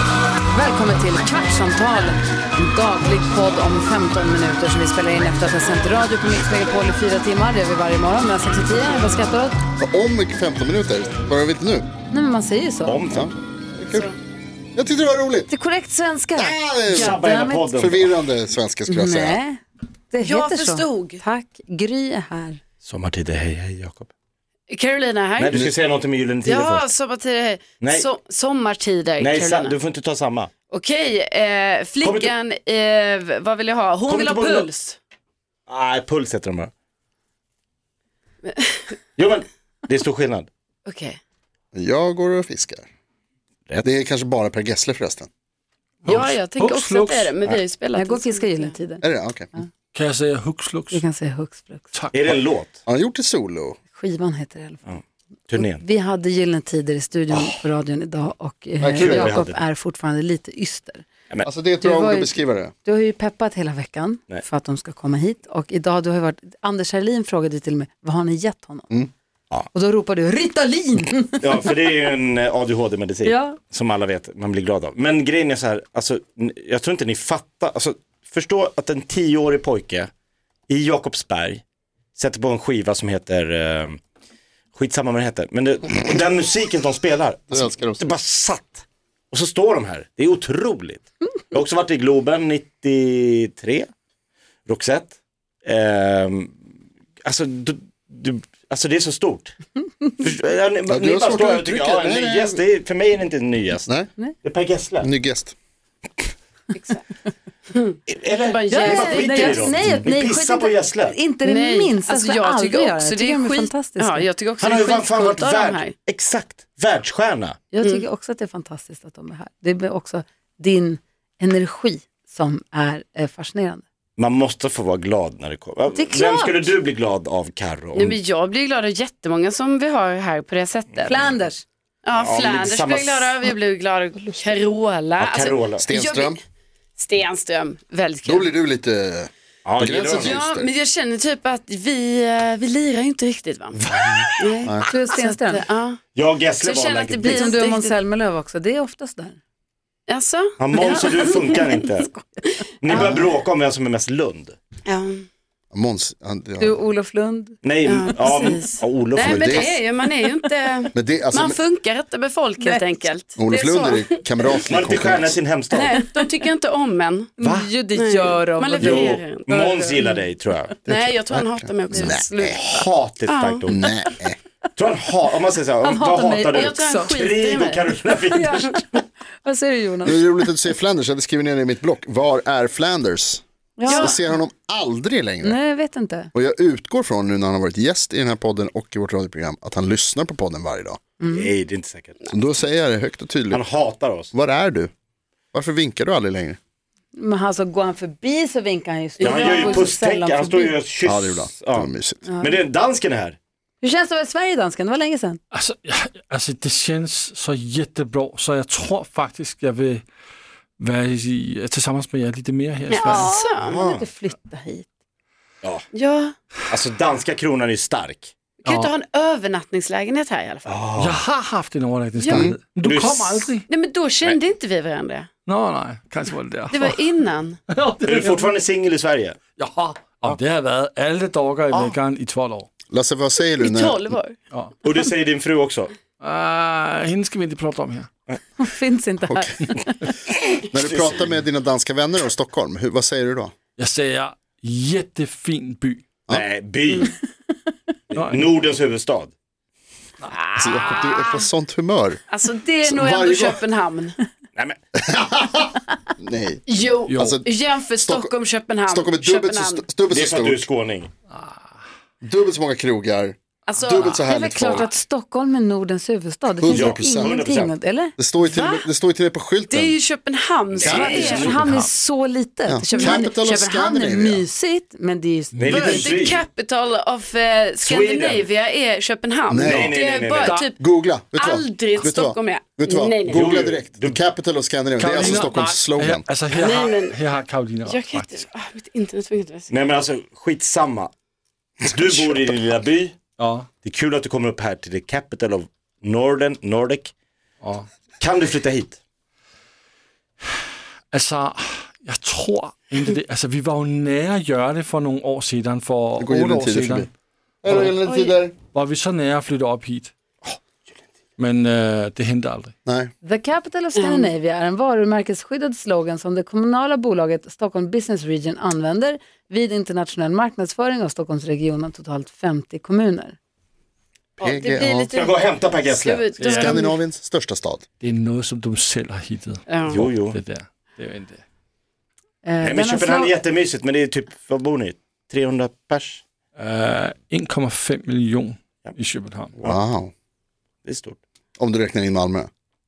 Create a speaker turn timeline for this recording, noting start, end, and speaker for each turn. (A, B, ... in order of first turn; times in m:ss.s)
0:00.5-0:09.6 A
0:09.8-0:11.9 B
0:12.1-0:13.0 A
0:12.8-0:13.3 C
0:13.1-0:14.1 B
0:13.9-0:14.2 D
0:14.7-0:15.5 B
0:15.5-0:17.7 A
0:16.3-0:19.4 B
0:16.9-0:18.2 C
0:18.9-0:22.6 A
0:20.2-0:21.2 D
0:22.8-0:24.1 C
0:24.7-0:25.6 D
0:25.4-0:26.9 C
0:26.4-0:29.8 D
0:27.8-0:28.1 C
0:29.2-0:30.5 C
0:30.7-0:35.0 D
0:32.0-0:32.3 C
0:34.1-0:34.7 C
0:35.7-0:36.7 C
0:38.4-0:39.0 D
0:39.2-0:40.5 C
0:40.8-0:41.2 D
0:41.7-0:42.9 B
0:43.8-0:45.3 B
0:46.0-0:47.3 E
0:46.0-0:48.8 D
0:47.9-0:49.0 A
0:49.0-0:49.5 B
0:49.9-0:51.0 E
0:50.9-0:51.9 A
0:51.9-0:52.4 E
0:52.1-0:52.8 C
0:52.9-0:53.8 B
0:53.9-0:55.0 A
0:54.9-0:55.8 C
0:55.5-1:01.0 A
0:58.8-0:59.4 B
0:59.0-0:59.6 C
1:01.4-1:02.7 B
1:01.8-1:08.9 A
1:09.7-1:11.6 A
1:11.4-1:20.1 C
1:13.2-1:13.6 A
1:20.7-1:21.6 C
1:22.2-1:24.0 C
1:24.7-1:33.9 C
1:27.5-1:28.1 B
1:34.7-1:36.5 C
1:37.2-1:39.6 C
1:40.2-1:43.9 C
1:40.9-1:42.6 B
1:44.4-1:45.1 C
1:45.0-1:45.5 B
1:46.7-1:47.1 D
1:47.7-1:49.7 D
1:48.1-1:51.2 C
1:48.7-1:54.3 A
1:49.8-1:50.0 B
1:51.4-1:55.9 D
1:54.6-1:57.6 C
1:57.7-2:03.8 A
2:04.2-2:08.2 C
2:05.9-2:06.7 A
2:07.9-2:11.2 D
2:11.0-2:11.6 A
2:12.0-2:16.4 D
2:12.1-2:13.4 C
2:15.2-2:15.8 C
2:15.8-2:16.4 B
2:17.0-2:18.5 D
2:18.2-2:20.7 B
2:19.6-2:20.4 C
2:20.2-2:23.8 D
2:23.9-2:24.3 C
2:23.9-2:24.9 B
2:24.4-2:26.0 D
2:24.8-2:25.6 A
2:26.1-2:27.5 C
2:26.6-2:28.0 D
2:27.2-2:29.4 A
2:30.1-2:31.8 D
2:30.6-2:32.1 C
2:32.4-2:33.2 D
2:32.8-2:34.6 C
2:34.8-2:35.3 D
2:35.7-2:36.8 B
2:36.6-2:37.6 A
2:37.6-2:39.7 C
2:37.8-2:44.7 D
2:39.2-2:39.8 B
2:40.9-2:41.6 B
2:42.6-2:43.1 A
2:43.4-2:45.4 B
2:44.7-2:46.0 C
2:45.7-2:47.4 D
2:47.4-2:50.5 A
2:47.4-2:47.7 C
2:47.9-2:50.2 D
2:48.8-2:50.8 C
2:50.8-2:52.7 B
2:50.9-2:52.7 D
2:52.0-2:52.5 A
2:52.6-2:53.8 C
2:53.3-2:53.7 D
2:53.7-2:54.4 B
2:54.8-2:58.8 C
2:55.8-2:57.2 A
2:56.5-2:58.0 D
2:58.3-2:58.8 A
2:58.5-2:58.8 D
2:59.4-3:00.2 A
3:00.0-3:05.6 B
3:03.8-3:04.2 A
3:03.9-3:04.2 D
3:05.4-3:06.3 A
3:06.3-3:11.0 B
3:11.2-3:11.5 A
3:11.2-3:12.3 C
3:12.3-3:13.6 B
3:13.5-3:14.3 C
3:14.3-3:14.9 B
3:15.5-3:16.6 B
3:17.1-3:20.8 A
3:19.2-3:19.9 D
3:19.2-3:23.4 C
3:21.0-3:22.2 B
3:22.3-3:22.6 A
3:23.8-3:25.4 A
3:25.5-3:30.0 E
3:30.8-3:33.3 E
3:32.9-3:33.8 D
3:33.0-3:34.9 A
3:33.7-3:34.0 C
3:35.9-3:36.3 D
3:36.7-3:38.3 C
3:38.6-3:40.8 D
3:38.7-3:38.9 E
3:40.7-3:41.2 C
3:41.0-3:43.7 E
3:42.2-3:42.5 D
3:42.3-3:42.6 B
3:42.8-3:43.5 C
3:43.7-3:45.3 D
3:45.4-3:47.0 E
3:46.7-3:47.6 D
3:47.7-3:48.5 E
3:48.1-3:49.4 C
3:49.6-3:52.7 E
3:52.9-3:54.2 B
3:53.6-3:54.4 D
3:54.8-3:55.9 C
3:56.2-3:58.1 E
3:58.6-4:00.1 A
3:59.2-3:59.6 B
4:00.5-4:01.2 C
4:00.7-4:03.5 B
4:03.8-4:06.0 E
4:06.3-4:07.2 C
4:08.1-4:09.3 C
4:08.1-4:08.5 E
4:10.2-4:11.4 D
4:10.6-4:12.2 B
4:12.3-4:14.2 D
4:12.8-4:13.6 B
4:15.0-4:18.3 B
4:16.7-4:19.8 D
4:17.1-4:17.4 E
4:18.9-4:20.7 B
4:20.1-4:21.1 C
4:21.3-4:21.6 E
4:22.2-4:24.9 B
4:23.7-4:24.2 D
4:24.2-4:28.1 A
4:26.6-4:27.3 B
4:26.7-4:27.7 C
4:28.2-4:30.0 B
4:28.4-4:28.9 D
4:29.7-4:31.6 D
4:30.7-4:31.6 C
4:30.8-4:31.4 B
4:30.9-4:36.0 A
4:30.9-4:31.9 E
4:32.7-4:34.4 B
4:32.9-4:33.2 D
4:35.6-4:36.4 C
4:35.7-4:40.8 D
4:37.8-4:38.5 C
4:39.5-4:40.0 B
4:39.6-4:40.6 C
4:40.8-4:46.2 B
4:41.4-4:43.6 D
4:43.3-4:44.2 C
4:45.0-4:48.4 E
4:46.5-4:47.2 D
4:47.9-4:49.7 D
4:49.7-4:51.1 C
4:51.8-4:53.2 C
4:52.0-4:52.3 B
4:53.4-4:53.7 E
4:53.8-4:57.1 C
4:57.6-4:57.9 E
4:58.2-4:59.0 C
5:01.1-5:07.1 E
5:06.2-5:07.1 B
5:07.6-5:08.5 B
5:07.6-5:08.0 E
5:08.0-5:08.4 D
5:08.7-5:10.1 E
5:11.4-5:12.7 E
5:12.9-5:13.1 B
5:13.2-5:23.4 A
5:14.0-5:14.3 D
5:24.4-5:25.1 B
5:24.4-5:27.0 D
5:25.1-5:26.2 C
5:26.4-5:26.8 E
5:26.4-5:27.8 B
5:28.0-5:31.4 E
5:29.7-5:30.0 D
5:29.9-5:30.4 C
5:32.4-5:33.4 A
5:32.6-5:36.2 C
5:36.6-5:39.6 E
5:39.6-5:40.1 B
5:40.8-5:41.2 C
5:41.6-5:42.5 B